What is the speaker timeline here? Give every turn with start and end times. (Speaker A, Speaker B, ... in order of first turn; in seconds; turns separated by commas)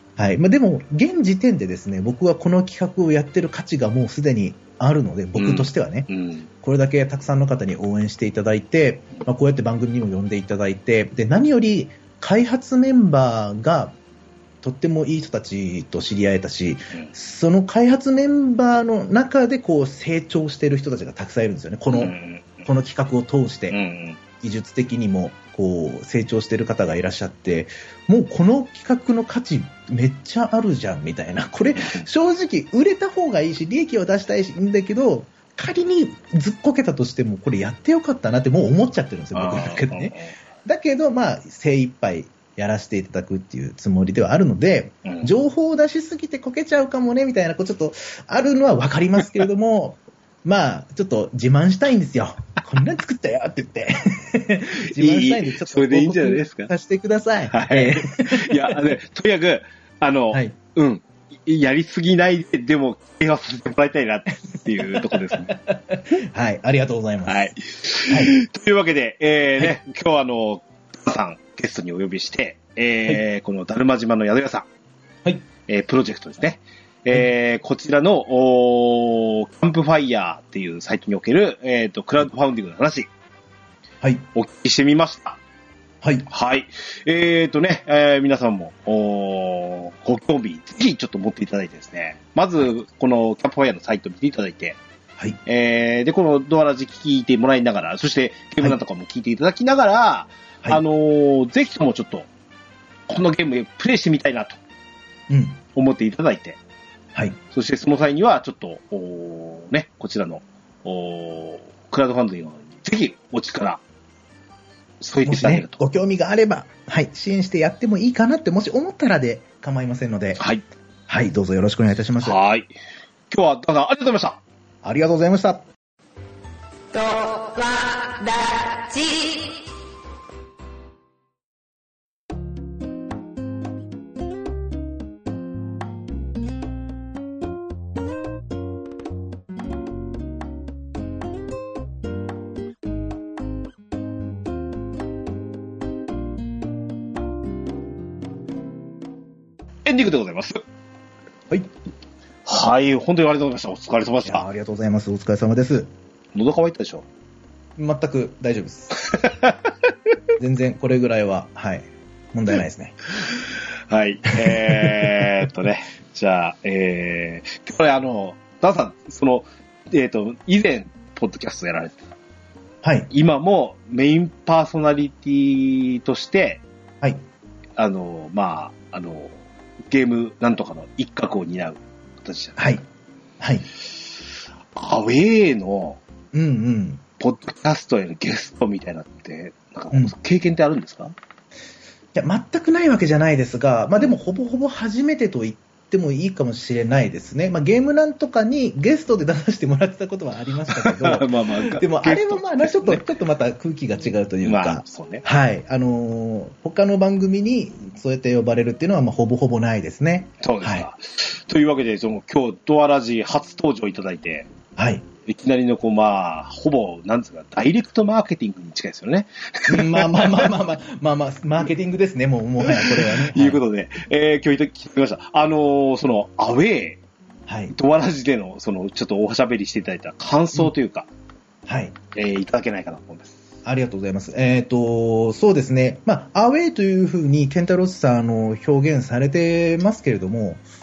Speaker A: 0.2-13.9, Speaker B: 5.3-6.5, Speaker A: 14.6-23.8, Speaker B: 21.9-22.6, Speaker B: 23.7-24.2, Speaker A: 24.4-58.8, Speaker B: 39.3-40.4, Speaker B: 54.9-56.7, Speaker B: 57.5-65.5, Speaker A: 64.8-67.5, Speaker B: 67.2-74.7, Speaker A: 68.1-68.3, Speaker B: 75.7-83.1, Speaker B: 84.3-85.4, Speaker B: 86.3-94.8, Speaker B: 95.4-102.3, Speaker B: 103.1-104.6, Speaker A: 105.3-105.6, Speaker B: 105.7-106.6, Speaker B: 107.5-113.8, Speaker B: 115.0-115.8, Speaker A: 115.2-120.4, Speaker B: 120.4-120.6, Speaker A: 121.1-122.4, Speaker B: 122.2-122.7, Speaker B: 123.3-124.4, Speaker A: 124.8-125.7, Speaker C: 126.9-129.6, Speaker B: 149.8-150.6, Speaker B: 152.4-154.4, Speaker A: 154.2-155.9, Speaker B: 156.3-157.0, Speaker A: 157.8-159.0, Speaker B: 159.1-159.5, Speaker A: 160.4-163.0, Speaker B: 163.3-172.1, Speaker A: 164.4-165.1, Speaker A: 172.8-173.1, Speaker B: 173.1-176.6, Speaker B: 177.8-179.3, Speaker B: 179.9-182.8, Speaker A: 182.6-182.8, Speaker A: 183.4-183.7, Speaker B: 184.7-186.0, Speaker A: 186.3-187.0, Speaker B: 187.2-191.1, Speaker A: 192.1-210.9, Speaker B: 200.7-203.0, Speaker B: 204.4-205.2, Speaker B: 210.4-214.5, Speaker A: 214.8-215.0, Speaker B: 215.2-220.5, Speaker A: 219.7-223.6, Speaker B: 222.6-227.0, Speaker A: 227.5-227.7, Speaker B: 227.7-231.1, Speaker A: 231.7-231.9, Speaker B: 232.1-233.4, Speaker A: 233.6-240.6